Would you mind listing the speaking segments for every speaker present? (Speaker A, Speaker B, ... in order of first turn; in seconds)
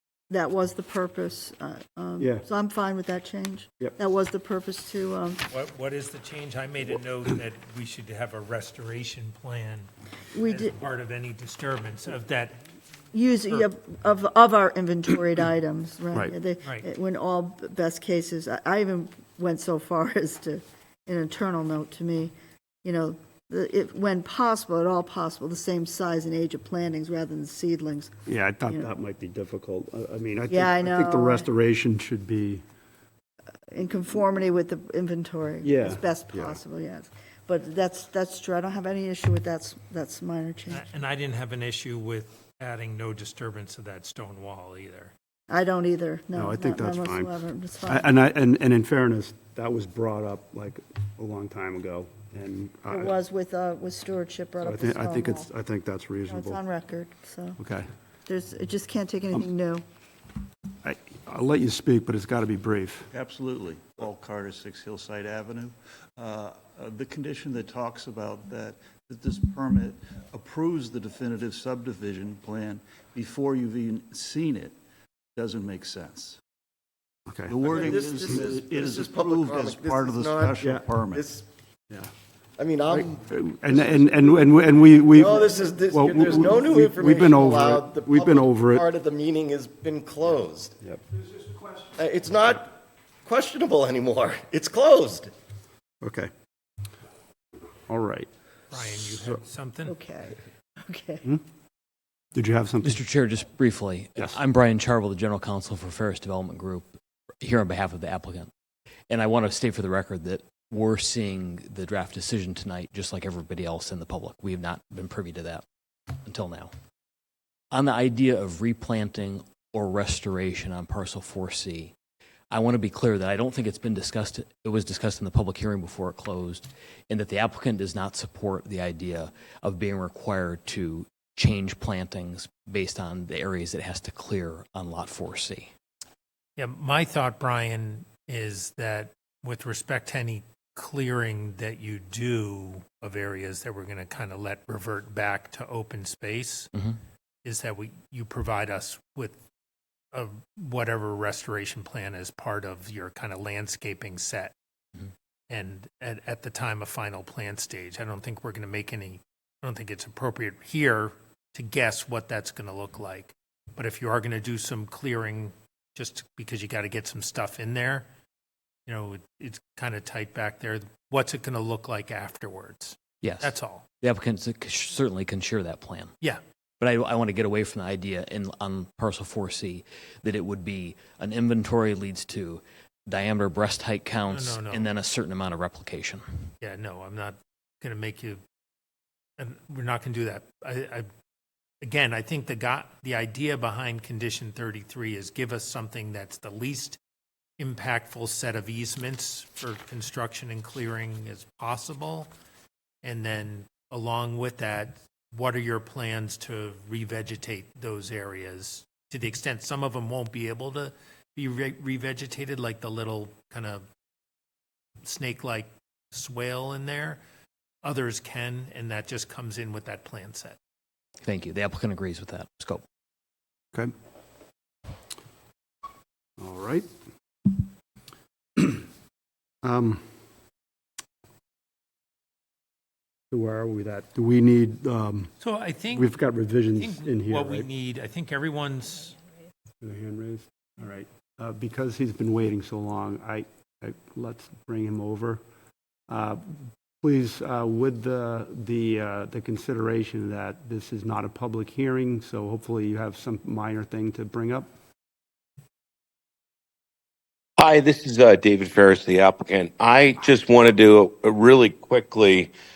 Speaker A: 0.3-5.5, 10.3-10.7, 13.1-28.1, 30.5-31.5, 33.7-40.9, 45.5-48.1, 52.9-55.5, 56.3-57.6, 58.3-59.8, 99.9-101.2
Speaker B: 2.2-2.5, 28.3-32.6, 35.6-36.6, 46.3-53.2, 54.6-56.6, 57.6-57.9, 60.8-63.1, 77.3-77.5, 82.9-88.9, 96.0-96.3, 97.9-98.3, 102.3-103.0, 226.4-226.9, 228.6-228.8, 229.6-230.0, 233.3-235.3, 235.9-237.7, 239.8-245.4, 246.1-254.7
Speaker C: 5.5-9.9, 10.4-12.6, 40.7-45.1, 98.7-100.0, 136.6-146.7, 147.4-149.4, 150.1-154.5, 155.5-168.1, 168.9-173.9, 184.3-184.9, 186.6-188.4, 189.4-191.1, 191.8-197.0, 197.6-202.3, 203.0-213.8, 215.0-217.2, 217.8-220.6, 235.4-236.1, 236.7-239.2
Speaker D: 63.1-74.8, 75.4-76.4, 77.5-81.3
Speaker E: 77.7-81.5, 82.6-84.0, 85.1-90.8, 92.0-95.3
Speaker F: 102.8-108.5, 109.1-115.6, 116.2-116.7, 117.7-121.9, 122.5-135.7, 173.2-176.1, 176.8-186.5, 221.2-222.8
Speaker G: 257.6-262.5